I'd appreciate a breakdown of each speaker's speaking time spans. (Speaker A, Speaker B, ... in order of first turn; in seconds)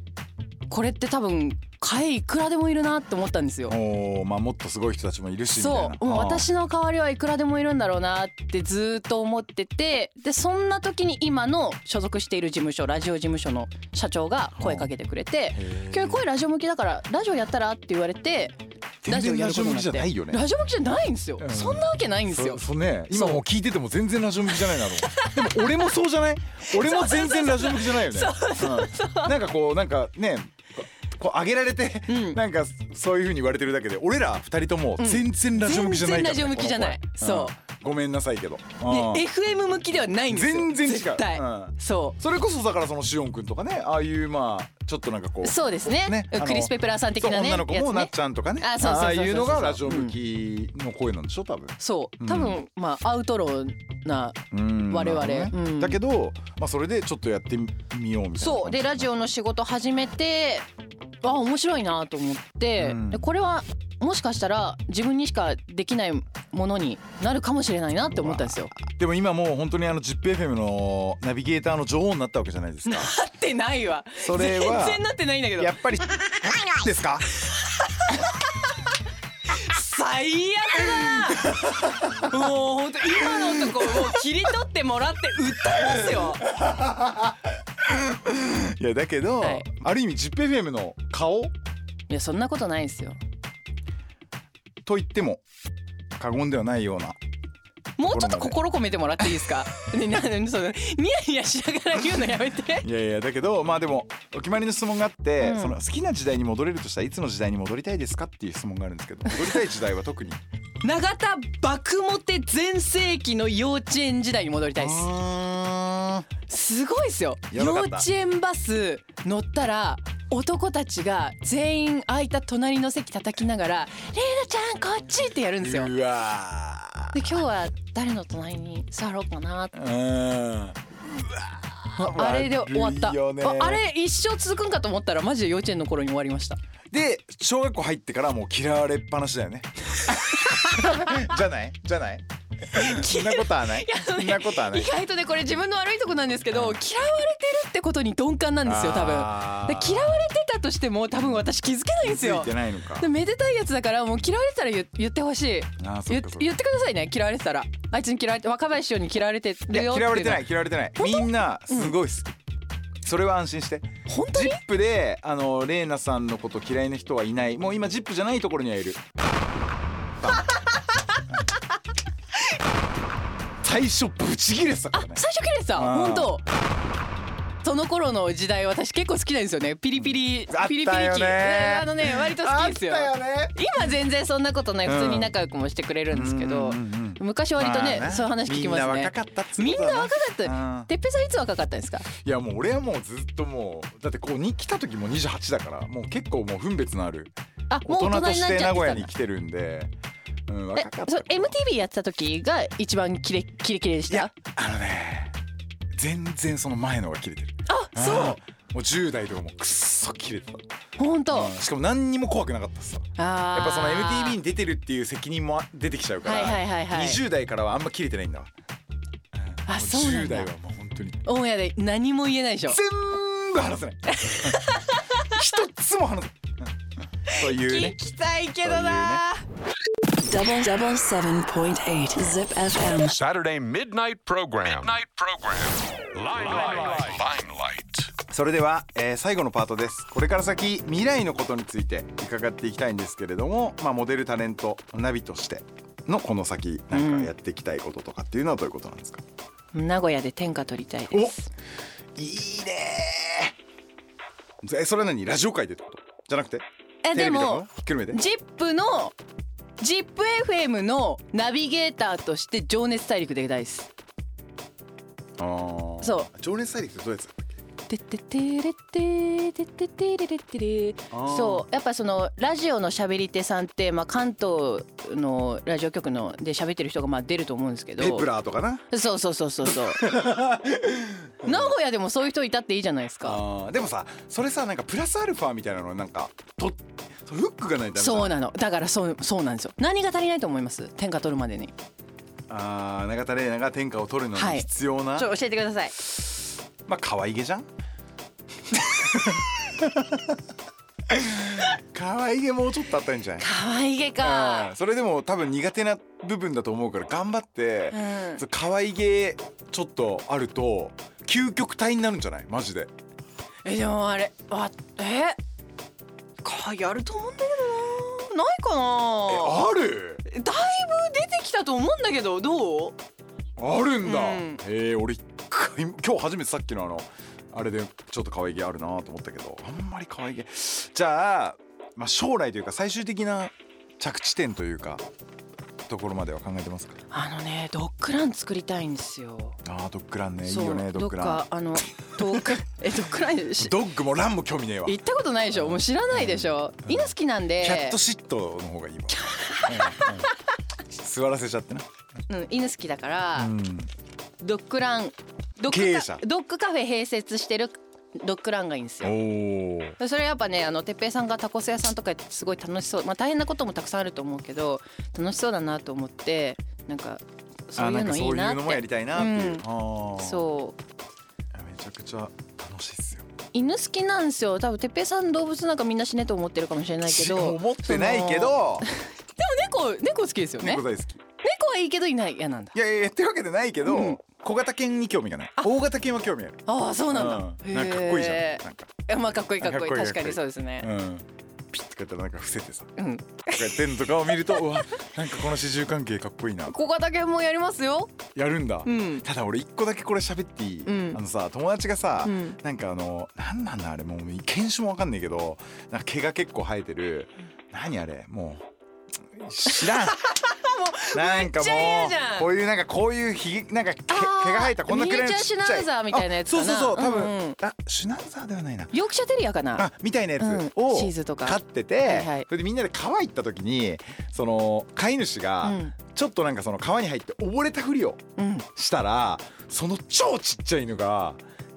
Speaker A: 0.7-3.8, 5.6-23.4, 25.1-25.6, 26.7-29.3, 32.1-32.4, 35.0-37.5, 38.9-42.2, 45.4-50.1, 51.8-56.0, 58.4-60.6, 61.2-68.7, 72.8-75.8, 79.5-86.5, 89.4-89.7, 92.1-93.2, 98.0-102.9, 105.4-105.8, 109.3-109.6, 110.8-115.1, 116.5-125.9, 127.1-129.7, 132.0-136.6, 140.3-141.3, 142.7-161.9, 164.1-164.6, 174.9-176.4, 177.6-192.1, 197.7-199.1, 200.8-204.3, 207.7-208.4, 211.0-211.5, 213.2-214.4, 216.2-217.2, 219.7-220.5, 221.2-222.8, 224.1-225.4, 227.3-229.4, 246.9-247.3, 249.7-251.5, 257.0-259.1, 259.8-263.9, 266.0-266.3, 267.9-278.3, 278.9-280.2, 281.4-283.4, 287.9-291.7, 294.3-295.9, 303.4-304.7, 307.9-308.4, 313.6-315.4, 316.4-319.6, 320.2-322.9, 324.0-324.6, 337.1-339.6, 340.4-343.7, 344.9-348.0, 349.1-350.3, 352.3-353.5, 354.4-359.2, 360.0-369.6, 370.2-370.8, 373.5-378.9, 379.4-380.8, 381.4-382.8, 383.8-384.2, 386.6-390.9, 393.0-394.9, 396.7-398.1, 398.9-399.2, 400.9-401.2, 402.2-402.6, 409.8-412.5, 414.1-417.6, 418.9-422.5, 425.6-425.9, 428.4-428.6
Speaker B: 3.7-6.4, 14.6-14.9, 15.5-16.2, 19.0-20.4, 21.4-39.2, 40.3-52.6, 54.5-59.1, 62.8-63.3, 68.1-73.1, 74.2-75.0, 75.6-77.3, 81.5-82.1, 83.2-84.2, 85.7-91.5, 94.8-95.4, 96.1-97.2, 98.1-98.6, 102.8-110.4, 114.8-116.2, 117.5-118.1, 125.6-127.4, 129.7-133.8, 136.9-144.9, 146.5-146.8, 148.6-150.2, 151.2-151.5, 152.0-153.1, 155.8-156.5, 159.7-162.4, 163.0-169.0, 170.2-170.5, 173.6-175.2, 175.7-176.4, 179.9-183.6, 184.8-185.3, 186.1-190.9, 192.1-199.9, 200.5-201.6, 204.1-205.3, 205.9-210.6, 211.3-218.5, 219.3-221.2, 222.7-224.6, 225.2-228.0, 228.6-229.2, 238.3-249.2, 252.2-253.5, 254.6-258.2, 265.4-267.5, 271.1-271.6, 278.0-278.8, 279.6-281.7, 283.2-288.4, 292.5-295.3, 296.9-297.7, 298.7-300.4, 301.1-303.5, 304.2-312.9, 319.3-320.2, 323.6-335.0, 335.9-337.0, 339.6-341.4, 342.2-342.6, 343.6-350.3, 350.9-351.9, 353.4-353.9, 355.6-356.2, 359.0-360.0, 367.7-370.4, 371.5-373.3, 377.0-378.9, 380.6-381.2, 382.7-388.9, 389.6-392.9, 393.5-396.8, 398.3-410.4, 411.1-418.9, 419.7-431.4
Speaker C: 230.2-233.2
Speaker D: 233.0-238.1